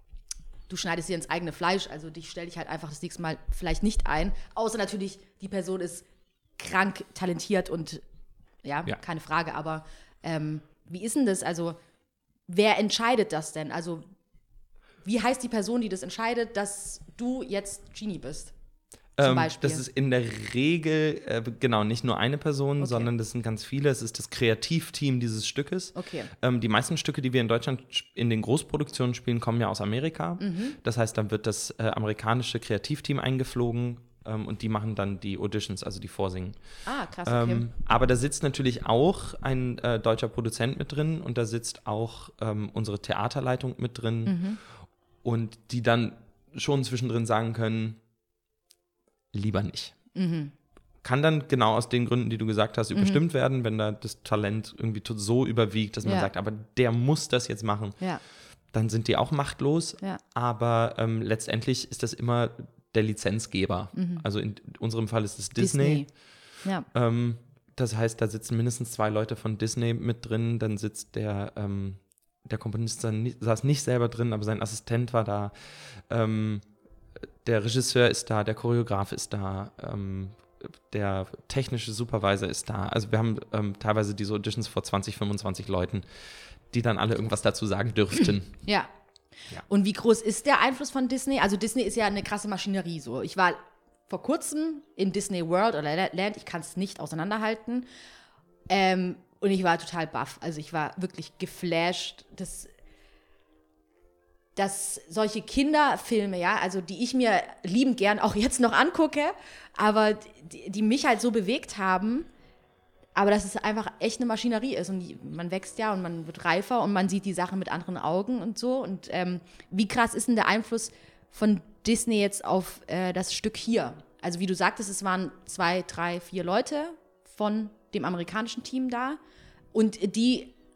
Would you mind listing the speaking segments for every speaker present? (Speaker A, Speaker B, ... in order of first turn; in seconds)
Speaker A: 0.7-6.1, 6.6-8.0, 8.6-11.8, 12.5-14.0, 15.0-18.5, 19.2-19.8, 22.8-23.1, 26.0-26.3, 30.4-30.8, 36.9-37.6, 44.3-44.6, 50.1-50.5, 52.9-53.2, 56.0-56.3, 63.9-64.2, 65.6-66.9, 89.7-97.9, 98.7-102.7, 104.6-112.3, 113.2-129.2, 129.7-130.5
Speaker B: 19.2-36.6, 37.3-44.4, 45.2-48.0, 49.3-50.0, 51.0-58.1, 58.6-76.8, 77.4-88.5